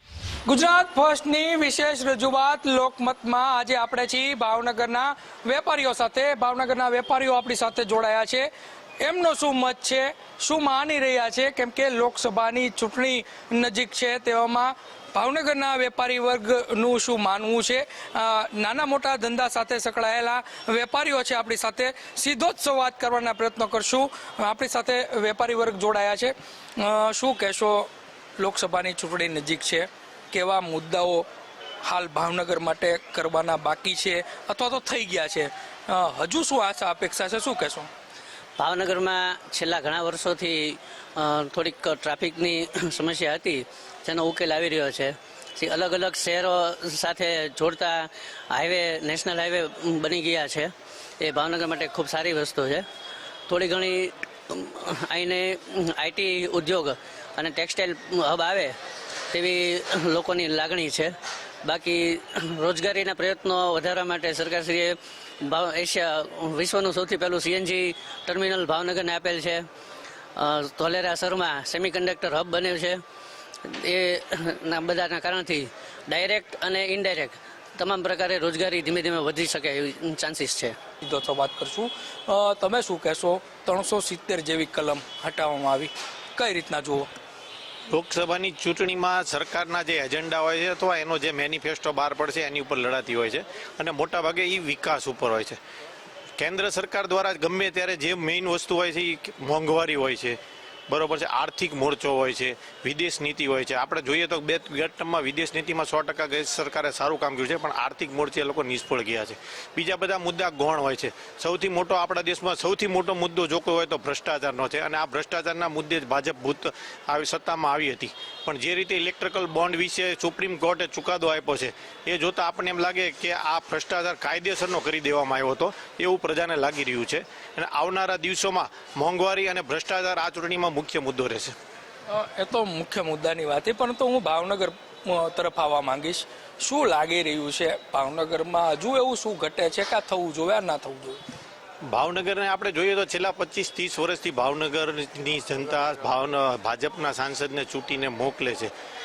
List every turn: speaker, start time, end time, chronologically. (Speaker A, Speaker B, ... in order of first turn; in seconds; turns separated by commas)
Speaker A: 0.5-8.5, Speaker A: 9.0-31.2, Speaker A: 31.8-37.9, Speaker B: 38.6-52.9, Speaker B: 53.5-58.7, Speaker B: 59.3-69.7, Speaker B: 70.4-73.0, Speaker B: 73.8-80.8, Speaker A: 81.0-87.1, Speaker C: 87.9-95.6, Speaker C: 96.4-100.4, Speaker C: 100.9-131.5, Speaker A: 132.1-141.2, Speaker C: 141.9-148.7